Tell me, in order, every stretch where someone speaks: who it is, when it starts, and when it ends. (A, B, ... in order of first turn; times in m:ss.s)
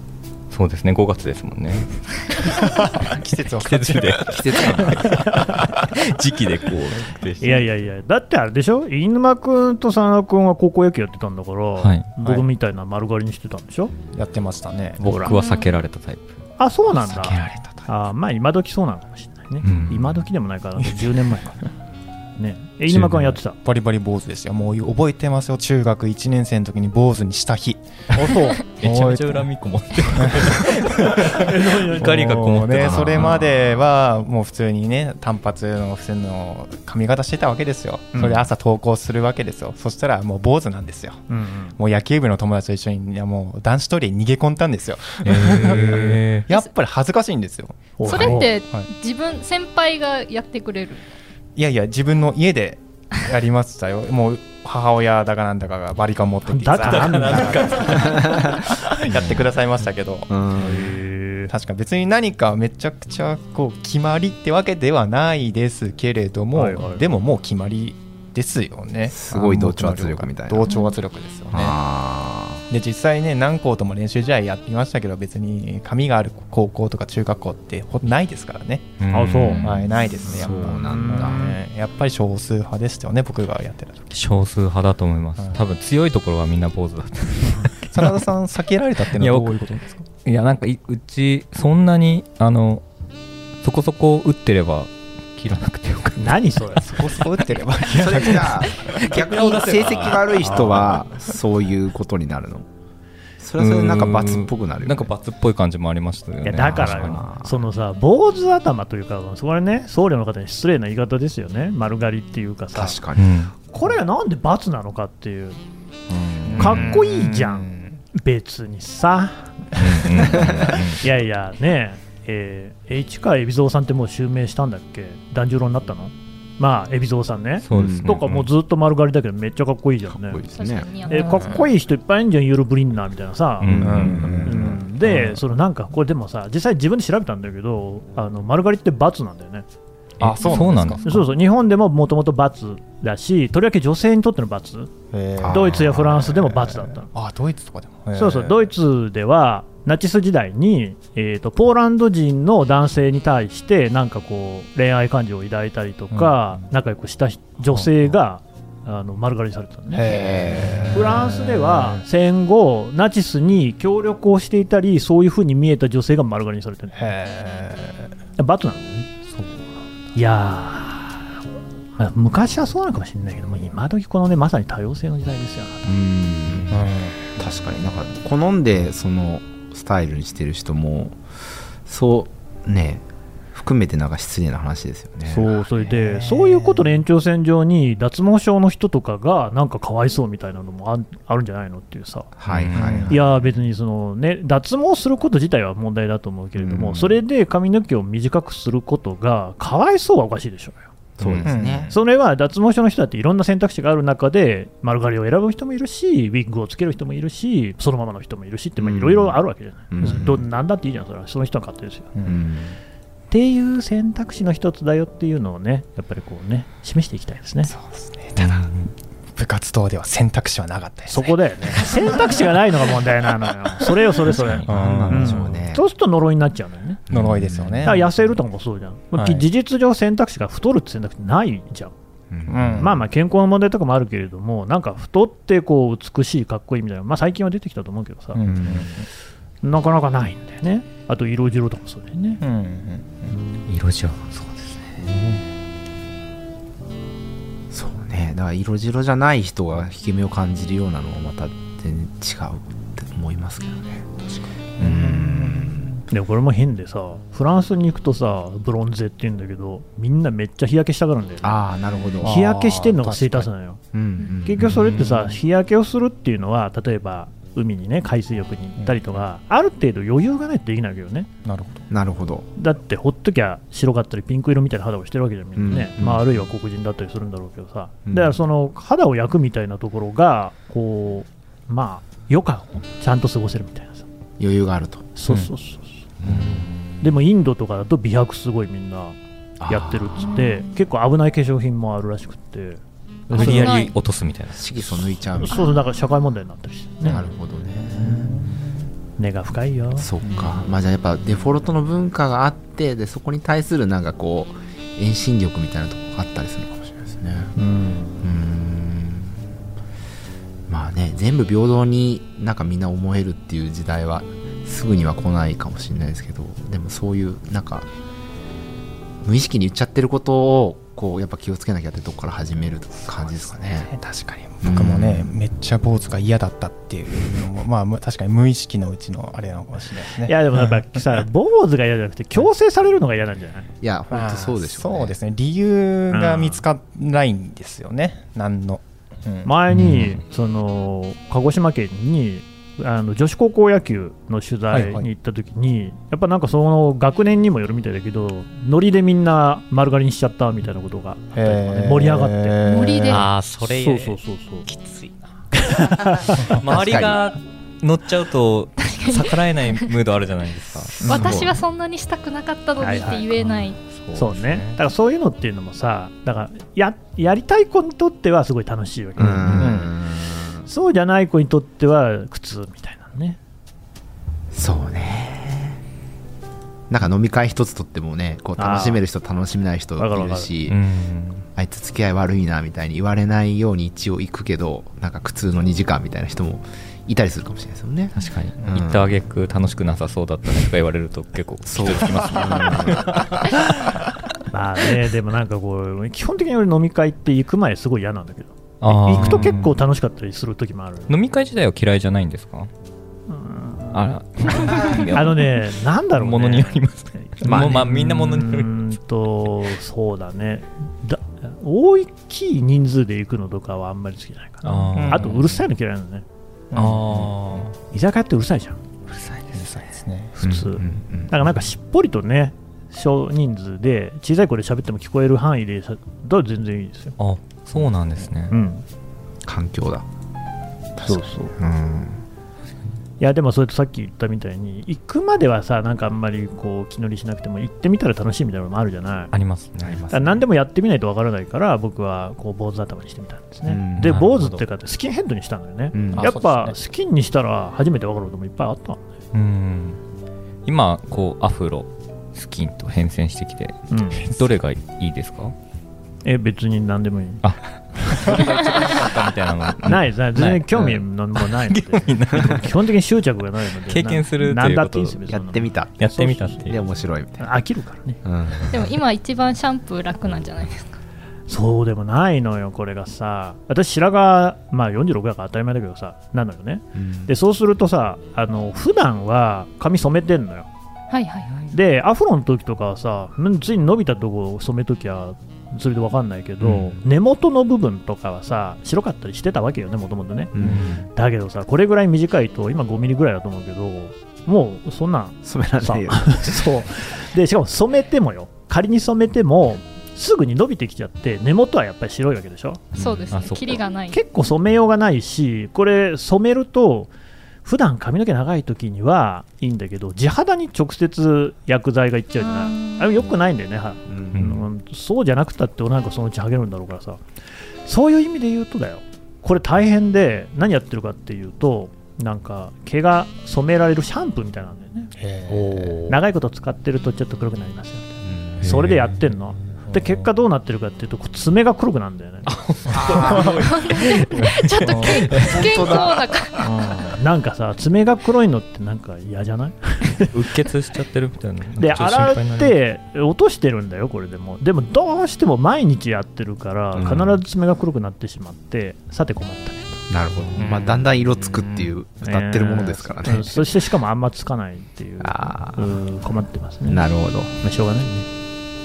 0:00.5-0:02.6 A
0:02.7-0:04.6 B
0:03.6-0:07.6 A
0:04.2-0:05.2 C
0:07.4-0:13.9 D
0:11.8-0:12.4 A
0:14.1-0:15.0 B
0:15.0-0:16.4 A
0:15.0-0:15.4 D
0:15.3-0:15.7 E
0:16.6-0:21.6 D
0:17.1-0:17.9 B
0:19.6-0:20.2 A
0:22.4-0:23.6 D
0:22.9-0:23.4 A
0:23.6-0:29.5 B
0:28.8-0:33.8 A
0:30.2-0:31.4 B
0:31.3-0:32.7 D
0:32.0-0:41.2 B
0:41.3-0:41.8 D
0:41.8-0:48.9 B
0:45.2-0:46.5 A
0:45.8-0:46.0 D
0:48.0-0:48.5 D
0:48.0-0:51.0 E
0:51.6-1:00.3 B
0:56.5-0:58.1 D
0:57.0-0:57.8 A
0:57.8-0:59.5 C
1:00.3-1:01.0 C
1:00.6-1:01.5 D
1:01.5-1:11.8 B
1:06.6-1:07.1 D
1:09.1-1:10.7 C
1:11.5-1:12.6 C
1:12.7-1:19.0 B
1:19.0-1:19.9 A
1:19.1-1:19.7 D
1:19.6-1:24.1 B
1:20.2-1:21.4 C
1:20.8-1:21.6 D
1:24.1-1:28.1 A
1:27.9-1:30.0 B
1:29.2-1:32.8 A
1:33.6-1:36.4 A
1:36.2-1:37.0 D
1:36.8-1:38.8 B
1:37.9-1:42.7 C
1:37.9-1:38.3 D
1:39.1-1:40.9 A
1:40.4-1:41.0 D
1:43.4-1:45.1 C
1:43.6-1:47.3 A
1:46.4-1:53.0 D
1:46.6-1:47.6 C
1:52.7-1:53.4 C
1:53.2-1:53.5 A
1:53.7-1:55.6 D
1:56.2-1:56.8 C
1:56.4-1:58.0 B
1:56.6-1:59.6 D
1:59.8-2:01.0 A
2:00.2-2:00.8 C
2:01.0-2:10.4 D
2:07.6-2:08.5 A
2:07.7-2:08.2 C
2:10.1-2:10.9 C
2:10.5-2:11.7 E
2:11.1-2:19.7 D
2:11.2-2:11.6 B
2:13.6-2:14.4 A
2:13.7-2:14.8 C
2:13.8-2:15.4 B
2:20.2-2:21.0 B
2:20.2-2:21.2 A
2:21.0-2:24.9 D
2:25.1-2:28.7 B
2:25.4-2:26.3 C
2:25.5-2:27.1 D
2:28.1-2:40.1 D
2:36.1-2:36.6 B
2:37.6-2:38.1 B
2:39.9-2:42.0 B
2:40.0-2:41.3 C
2:40.9-2:47.1 D
2:46.9-2:48.1 B
2:48.4-2:49.1 D
2:50.2-2:51.3 D
2:52.0-2:56.0 D
2:55.9-2:56.8 C
2:56.7-2:57.4 B
2:57.4-3:01.2 C
3:01.8-3:05.6 C
3:05.3-3:12.3 D
3:05.9-3:06.9 B
3:12.4-3:13.4 C
3:12.5-3:13.0 A
3:12.7-3:13.1 B
3:13.1-3:20.9 D
3:16.6-3:17.2 C
3:21.2-3:22.0 C
3:21.2-3:21.9 B
3:21.9-3:32.1 D
3:28.8-3:29.4 C
3:29.9-3:30.4 C
3:30.0-3:30.3 B
3:32.2-3:32.4 B
3:32.2-3:32.8 C
3:33.3-3:37.7 D
3:37.7-3:38.6 B
3:38.4-3:38.9 A
3:39.4-3:42.5 B
3:41.1-3:47.0 D
3:44.6-3:45.6 B
3:44.7-3:45.8 C
3:47.1-3:48.0 C
3:47.1-3:48.2 B
3:47.8-3:51.9 D
3:49.2-3:49.5 B
3:52.3-3:53.0 C
3:52.5-3:53.0 B
3:52.8-3:58.4 D
3:58.3-3:59.1 B
3:58.4-3:58.9 C
3:59.6-4:02.4 D
4:02.4-4:03.4 B
4:03.3-4:03.6 D
4:03.7-4:05.0 A
4:05.1-4:05.4 B
4:07.7-4:14.1 C
4:14.3-4:16.0 B
4:14.8-4:16.0 C
4:16.1-4:21.6 D
4:21.4-4:22.4 C
4:22.2-4:23.5 B
4:22.2-4:23.8 D
4:23.9-4:25.0 C
4:24.4-4:31.3 D
4:31.4-4:31.9 B
4:31.9-4:32.5 C
4:32.6-4:44.0 D
4:35.6-4:36.3 C
4:38.1-4:38.4 C
4:44.4-4:45.1 C
4:45.2-4:46.0 D
4:46.2-4:47.1 C
4:46.3-4:46.7 A
4:47.0-4:49.2 D
4:49.6-4:50.3 C
4:49.7-4:53.8 D
4:53.3-4:55.1 A
4:53.4-4:53.9 E
4:54.6-4:55.7 C
4:55.4-4:57.2 D
4:55.5-4:55.8 E
4:57.0-4:58.5 C
4:58.0-4:58.3 D
4:58.1-4:58.6 B
4:59.2-5:00.1 D
5:00.0-5:07.5 C
5:00.2-5:00.7 B
5:07.6-5:08.3 D
5:08.2-5:09.4 C
5:10.7-5:17.9 C
5:19.2-5:23.9 C
5:23.1-5:31.0 B
5:24.6-5:25.3 C
5:30.2-5:33.7 D
5:33.8-5:35.2 C
5:34.1-5:39.5 B
5:36.1-5:36.6 D
5:39.4-5:52.6 D
5:39.7-5:40.2 A
5:44.7-5:45.1 B
5:51.3-5:53.2 B
5:52.6-5:53.2 E
5:53.1-5:55.1 A
5:53.6-5:54.6 D
5:55.5-5:56.4 D
5:56.4-6:01.3 A
5:56.6-5:57.2 C
5:58.8-5:59.9 E
6:00.8-6:01.6 C
6:01.0-6:03.8 E
6:02.8-6:03.2 D
6:03.4-6:04.8 A
6:04.1-6:09.8 D
6:09.2-6:10.7 C
6:09.5-6:09.9 B
6:10.7-6:13.4 D
6:14.5-6:15.8 C
6:16.9-6:20.8 C
6:18.6-6:19.0 D
6:20.0-6:20.5 D
6:20.7-6:21.5 A
6:21.6-6:29.2 C
6:28.2-6:33.4 A
6:31.7-6:33.3 C
6:34.5-6:41.1 D
6:38.8-6:39.8 A
6:39.1-6:39.6 C
6:41.1-6:42.7 A
6:43.3-6:56.2 D
6:43.9-6:48.7 A
6:47.5-6:47.8 C
6:54.6-6:55.6 A
6:55.0-6:55.3 B
6:56.7-6:57.3 B
6:56.7-6:57.7 A
6:57.9-6:58.8 D
6:59.1-6:59.9 A
6:59.5-7:00.3 B
7:00.4-7:07.2 D
7:00.4-7:01.3 C
7:07.2-7:08.6 A
7:08.5-7:08.8 D
7:09.4-7:10.1 C
7:11.0-7:12.2 C
7:11.0-7:11.5 D
7:13.2-7:19.3 D
7:19.3-7:20.0 A
7:19.8-7:20.4 C
7:20.1-7:29.0 D
7:23.7-7:24.3 C
7:24.0-7:24.6 A
7:25.9-7:26.3 C
7:26.1-7:26.8 B
7:29.3-7:30.0 A
7:30.7-7:35.5 A
7:33.9-7:34.2 D
7:36.2-7:37.4 D
7:37.4-7:42.7 A
7:38.2-7:39.2 B
7:39.8-7:46.7 D
7:43.9-7:45.2 A
7:45.3-7:46.1 C
7:46.0-7:46.8 A
7:46.7-7:47.6 C
7:47.4-7:48.2 D
7:48.2-7:49.0 C
7:48.7-7:51.0 E
7:51.5-8:00.7 D
7:57.0-7:57.3 C
8:01.1-8:01.7 E
8:01.7-8:10.6 D
8:06.6-8:07.0 C
8:10.5-8:11.0 C
8:10.6-8:11.0 A
8:11.1-8:22.8 D
8:15.4-8:16.8 C
8:22.9-8:23.3 C
8:23.0-8:24.2 E
8:23.3-8:23.8 A
8:24.1-8:27.1 D
8:27.6-8:37.2 D
8:32.4-8:33.2 E
8:34.1-8:34.4 C
8:34.3-8:34.7 A
8:37.8-8:45.1 D
8:45.2-8:46.0 B
8:45.5-8:46.2 C
8:46.1-8:52.5 D
8:48.2-8:48.8 C
8:48.6-8:49.1 A
8:49.8-8:50.2 B
8:52.5-8:53.6 A
8:52.9-8:53.2 B
8:52.9-8:53.8 C
8:53.3-8:56.6 E
8:54.2-8:54.5 A
8:54.9-8:55.4 B
8:55.3-8:56.3 C
8:56.6-9:00.4 D
8:56.6-8:57.1 B
9:00.3-9:02.8 A
9:01.8-9:10.1 D
9:07.0-9:07.4 C
9:10.1-9:13.6 C
9:10.6-9:11.9 B
9:12.2-9:17.0 D
9:15.2-9:16.0 C
9:16.8-9:17.6 C
9:17.6-9:18.3 D